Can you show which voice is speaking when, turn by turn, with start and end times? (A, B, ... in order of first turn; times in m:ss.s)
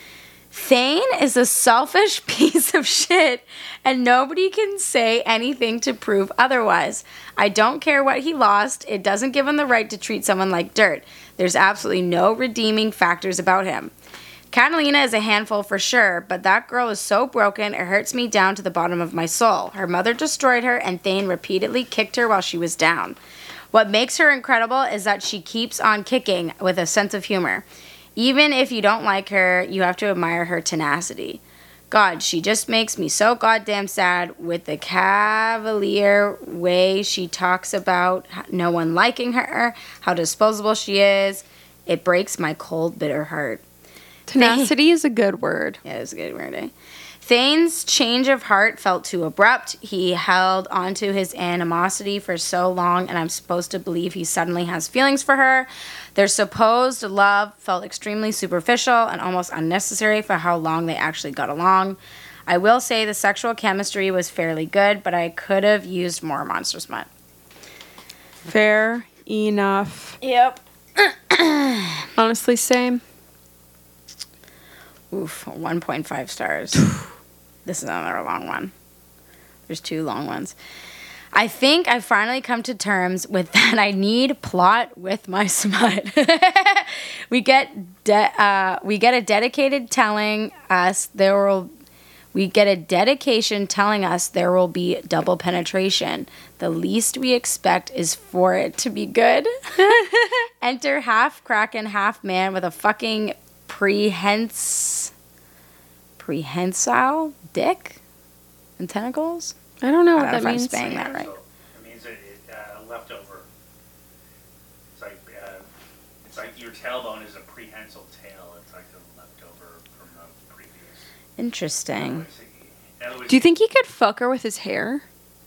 0:00.5-0:13.9 A
0:14.5-0:23.2 A
0:23.7-0:43.6 A
0:44.3-0:45.8 B
0:44.4-0:44.7 A
0:45.8-1:07.1 A
1:08.4-1:10.2 B
1:10.2-1:12.1 A
1:12.2-1:13.0 B
1:15.1-1:16.9 A
1:17.6-1:18.7 A
1:19.7-1:20.5 A
1:21.3-1:31.7 A
1:32.3-1:40.0 A
1:39.8-1:40.4 B
1:40.6-1:45.1 A
1:46.2-1:48.0 A
1:48.8-1:49.6 A
1:49.8-1:50.9 B
1:50.2-1:51.3 A
1:50.8-1:53.5 C
1:54.9-1:55.7 C
1:56.2-2:01.1 C
2:01.4-2:02.2 A
2:02.0-2:03.4 C
2:03.3-2:05.0 B